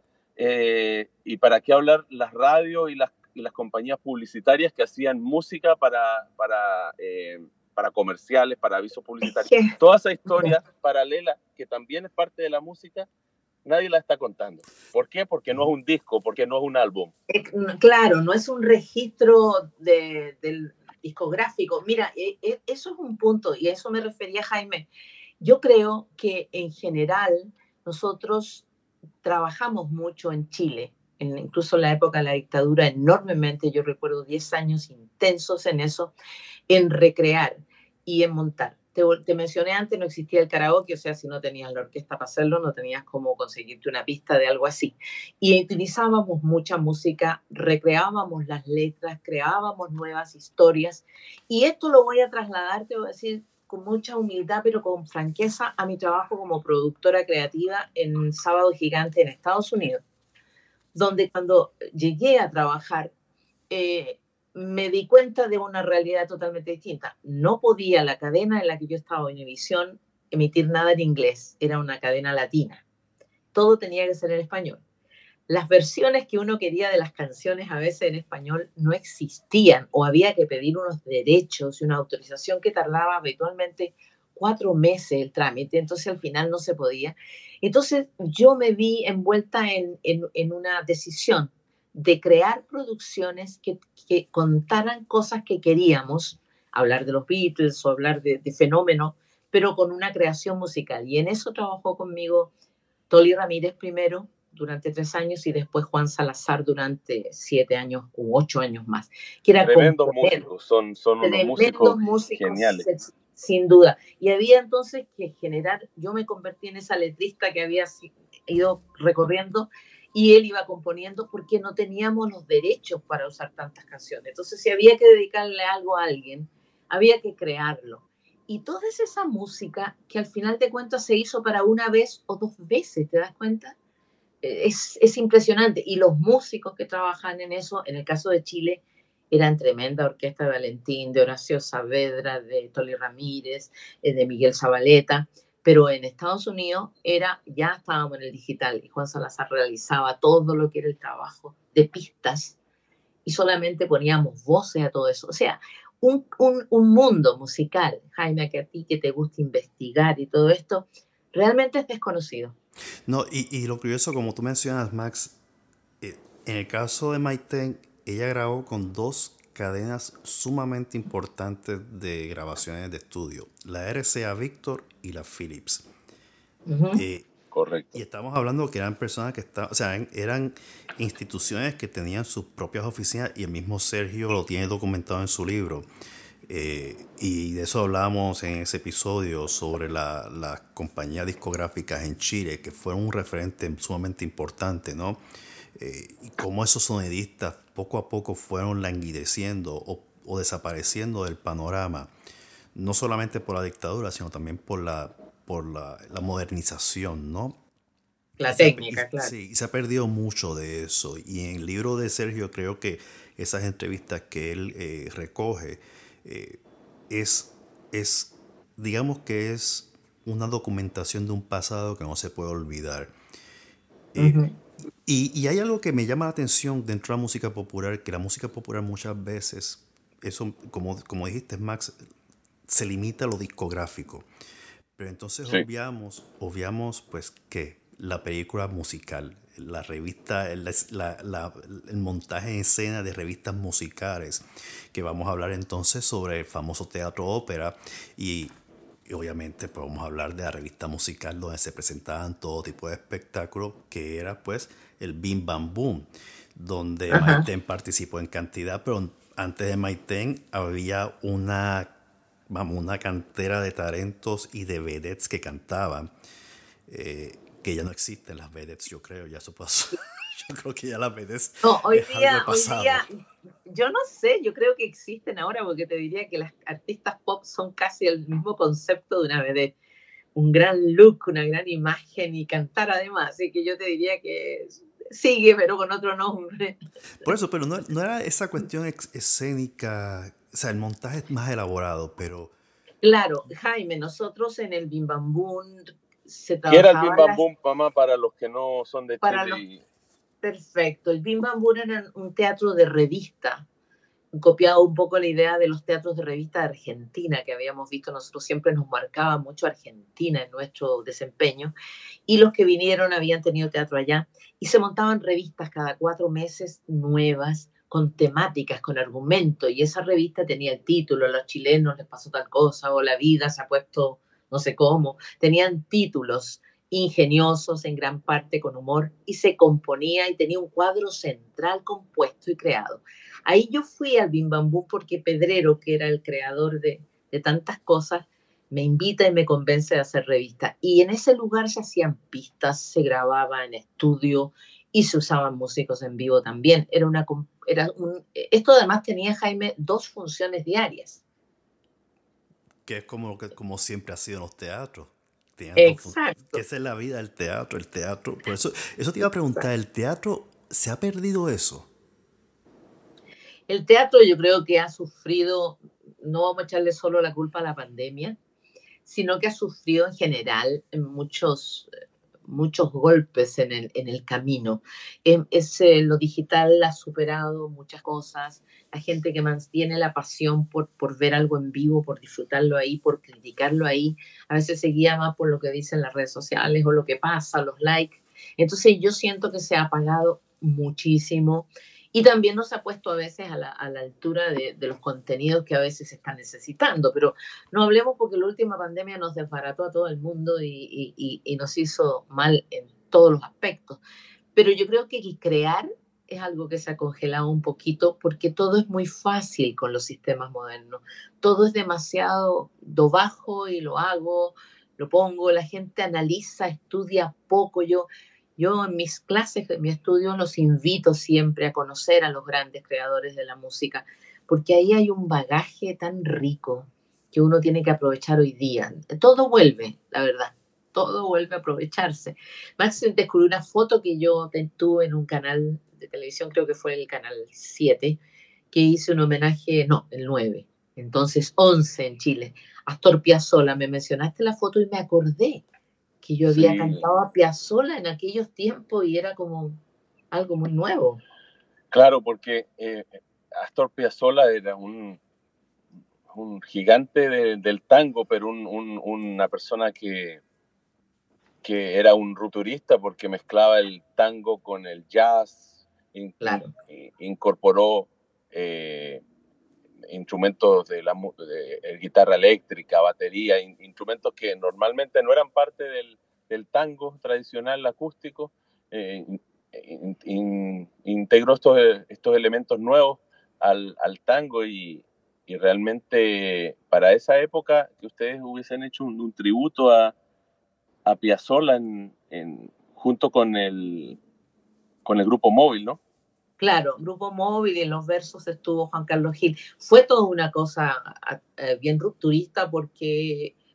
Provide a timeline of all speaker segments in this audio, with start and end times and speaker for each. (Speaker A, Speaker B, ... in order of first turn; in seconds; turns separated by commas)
Speaker A: 0.4-13.1, Speaker B: 9.2-9.8, Speaker B: 10.3-10.5, Speaker A: 13.7-17.1, Speaker B: 17.3-24.9, Speaker B: 25.4-28.6, Speaker B: 29.2-36.1, Speaker B: 36.7-60.0, Speaker B: 61.0-63.1, Speaker B: 63.7-72.8, Speaker B: 73.5-74.8, Speaker B: 75.5-102.5, Speaker B: 103.1-110.4, Speaker A: 109.6-112.9, Speaker B: 111.2-133.8, Speaker B: 134.4-152.6, Speaker B: 153.2-162.6, Speaker C: 163.1-165.4, Speaker C: 166.0-175.9, Speaker B: 176.7-177.0, Speaker C: 176.9-177.3, Speaker A: 177.5-177.9, Speaker C: 177.9-185.9, Speaker C: 186.5-195.2, Speaker C: 195.8-202.1, Speaker C: 202.8-207.6, Speaker B: 208.4-209.3, Speaker C: 208.5-223.1, Speaker C: 224.2-224.4, Speaker B: 224.2-224.5, Speaker C: 225.1-231.9, Speaker C: 232.7-234.3, Speaker C: 235.0-248.5, Speaker C: 249.1-261.9, Speaker B: 257.1-257.4, Speaker C: 262.5-266.1, Speaker C: 266.9-273.1, Speaker B: 271.6-273.1, Speaker B: 273.7-279.8, Speaker B: 280.4-286.8, Speaker C: 287.2-292.5, Speaker B: 293.0-297.4, Speaker A: 296.7-299.8, Speaker B: 299.2-299.6, Speaker B: 300.4-303.7, Speaker B: 304.3-311.7, Speaker B: 312.3-351.2, Speaker C: 352.9-361.9, Speaker B: 355.8-356.6, Speaker B: 363.7-368.4, Speaker B: 369.1-371.9, Speaker B: 372.5-404.0, Speaker B: 404.6-438.2, Speaker B: 438.7-445.6, Speaker B: 446.2-449.8, Speaker A: 446.5-447.0, Speaker B: 450.3-451.2, Speaker A: 451.9-455.2, Speaker A: 456.3-460.4, Speaker A: 461.6-469.2, Speaker B: 466.4-466.7, Speaker A: 470.1-490.1, Speaker A: 491.1-494.2, Speaker A: 495.1-496.0, Speaker B: 496.6-503.5